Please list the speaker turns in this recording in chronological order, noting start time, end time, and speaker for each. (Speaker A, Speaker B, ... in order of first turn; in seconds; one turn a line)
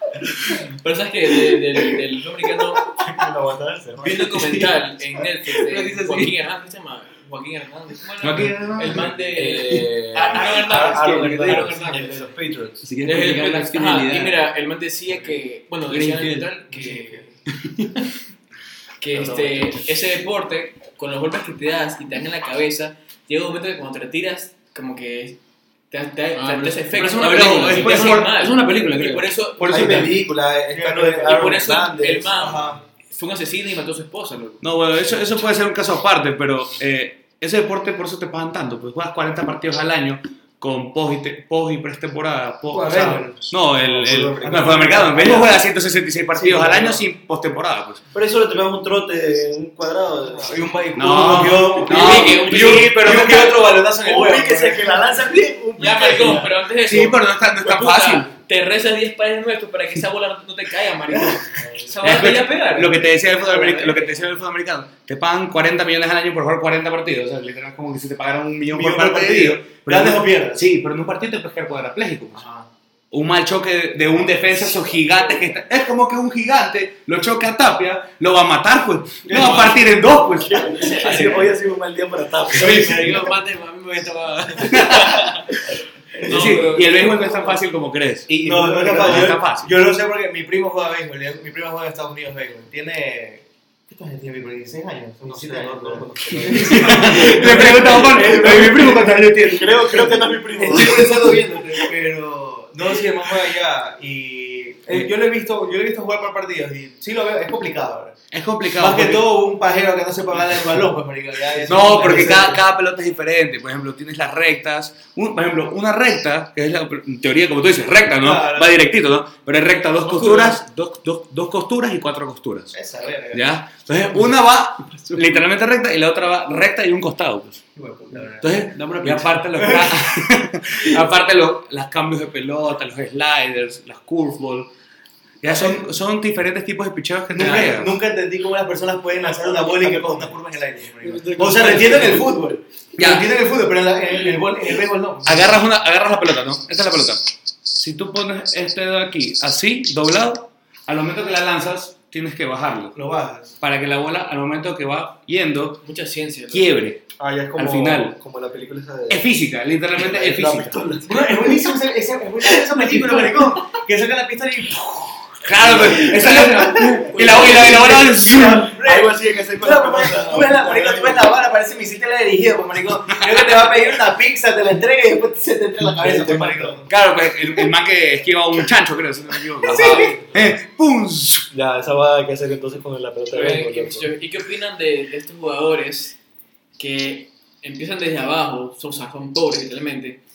Speaker A: 0.7-3.0
Speaker B: 3.0-4.3
Speaker A: 4.0-12.3
Speaker C: 4.0-4.8
Speaker C: 5.4-6.3
Speaker D: 8.2-9.1
Speaker B: 9.3-12.8
Speaker C: 9.4-12.0
Speaker C: 12.8-14.4
Speaker A: 13.1-17.3
Speaker C: 15.9-16.6
Speaker E: 16.8-17.2
Speaker C: 17.5-17.9
Speaker A: 19.0-25.4
Speaker B: 19.1-19.8
Speaker A: 25.9-30.2
Speaker C: 26.3-29.4
Speaker D: 26.9-28.3
Speaker B: 29.6-32.7
Speaker E: 29.7-30.1
Speaker E: 30.7-31.6
Speaker A: 31.2-34.6
Speaker E: 32.3-32.8
Speaker D: 34.6-48.0
Speaker E: 42.7-43.5
Speaker B: 43.7-45.5
Speaker E: 44.4-45.6
Speaker E: 46.3-47.0
Speaker B: 48.1-53.5
Speaker E: 50.2-56.5
Speaker D: 50.9-53.4
Speaker A: 51.8-53.0
Speaker C: 52.1-52.6
Speaker B: 54.0-56.5
Speaker A: 55.8-64.3
Speaker D: 56.8-58.3
Speaker B: 61.6-61.9
Speaker D: 62.0-72.4
Speaker E: 68.7-70.7
Speaker E: 72.3-72.7
Speaker D: 73.1-80.8
Speaker E: 79.3-79.6
Speaker B: 79.3-83.2
Speaker A: 80.8-81.5
Speaker C: 82.5-85.3
Speaker D: 84.7-85.4
Speaker A: 86.2-87.6
Speaker D: 86.2-88.4
Speaker E: 86.3-86.7
Speaker B: 88.3-89.4
Speaker E: 88.3-108.2
Speaker D: 88.9-89.7
Speaker B: 95.2-101.6
Speaker D: 96.5-99.9
Speaker D: 108.3-109.3
Speaker E: 108.7-112.6
Speaker D: 111.7-122.7
Speaker E: 118.2-118.8
Speaker E: 122.7-123.4
Speaker D: 123.3-127.6
Speaker C: 124.9-125.4
Speaker E: 127.8-128.7
Speaker D: 128.4-134.7
Speaker C: 128.7-129.7
Speaker E: 129.6-130.0
Speaker D: 135.4-137.9
Speaker E: 135.4-135.9
Speaker E: 137.3-145.5
Speaker C: 141.0-142.4
Speaker D: 143.0-143.3
Speaker D: 145.2-153.0
Speaker E: 152.9-153.6
Speaker D: 153.6-155.8
Speaker A: 155.8-156.7
Speaker D: 156.5-157.0
Speaker B: 157.2-159.3
Speaker D: 157.5-158.2
Speaker D: 159.1-160.8
Speaker B: 159.9-161.4
Speaker E: 161.1-176.9
Speaker D: 165.4-168.7
Speaker B: 168.7-171.3
Speaker B: 175.9-176.8
Speaker D: 176.9-181.5
Speaker E: 179.6-180.2
Speaker B: 179.6-180.6
Speaker B: 181.5-184.1
Speaker A: 183.3-186.2
Speaker A: 186.8-190.2